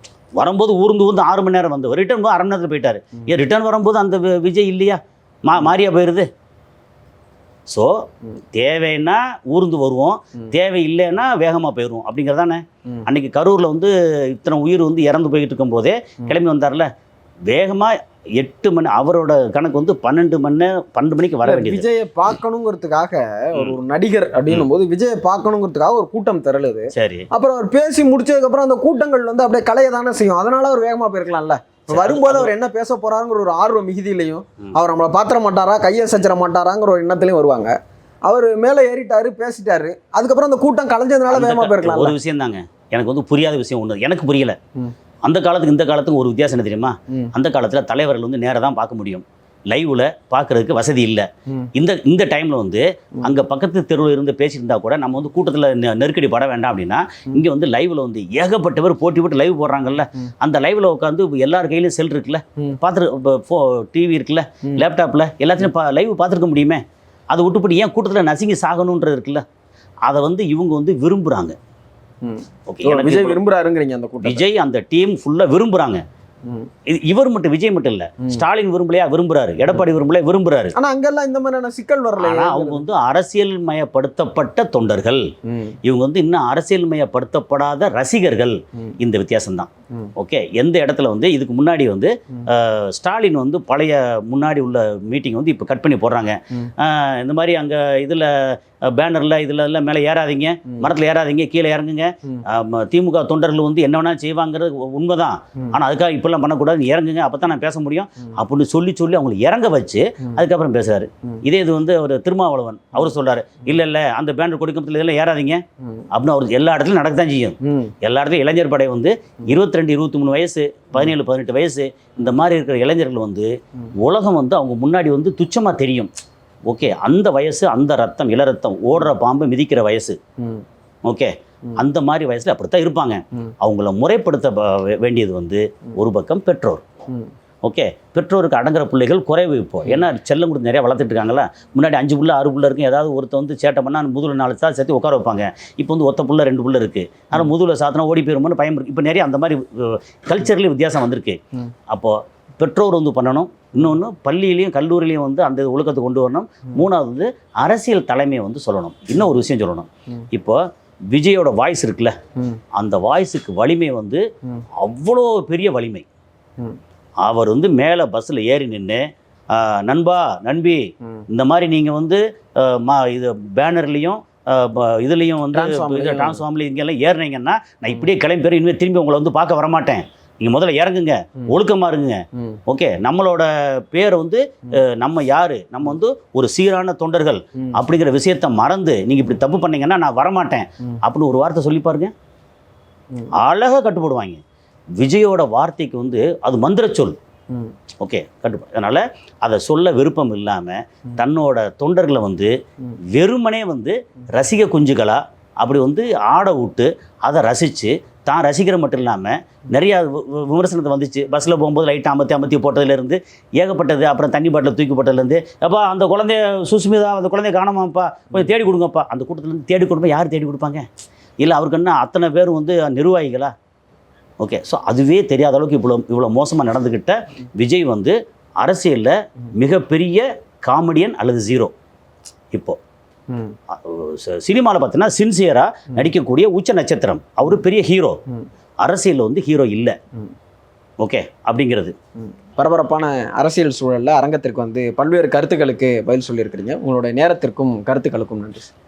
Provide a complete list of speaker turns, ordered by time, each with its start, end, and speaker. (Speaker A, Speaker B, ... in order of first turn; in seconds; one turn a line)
Speaker A: 0.4-6.3
Speaker A: 7.7-16.9
Speaker A: 17.5-21.9
Speaker B: 21.4-37.7
Speaker A: 26.9-27.3
Speaker A: 31.9-32.5
Speaker B: 38.2-42.2
Speaker A: 41.3-44.6
Speaker A: 45.2-69.4
Speaker A: 70.1-71.6
Speaker B: 72.2-74.4
Speaker A: 72.7-73.4
Speaker A: 74.2-76.0
Speaker A: 76.9-80.8
Speaker B: 80.8-82.8
Speaker A: 82.2-85.3
Speaker B: 85.5-85.8
Speaker A: 85.8-126.1
Speaker B: 117.6-117.9
Speaker A: 126.7-130.2
Speaker A: 131.1-136.8
Speaker A: 137.6-160.6
Speaker A: 161.1-162.2
Speaker A: 162.7-164.2
Speaker A: 164.8-166.1
Speaker A: 167.2-192.1
Speaker B: 175.5-176.4
Speaker A: 193.4-194.4
Speaker A: 195.0-197.2
Speaker A: 198.0-202.5
Speaker A: 203.1-220.9
Speaker A: 221.4-223.5
Speaker A: 224.4-231.7
Speaker A: 232.5-232.8
Speaker B: 233.3-233.6
Speaker A: 233.7-238.2
Speaker A: 238.8-239.9
Speaker A: 241.0-241.9
Speaker B: 242.6-248.7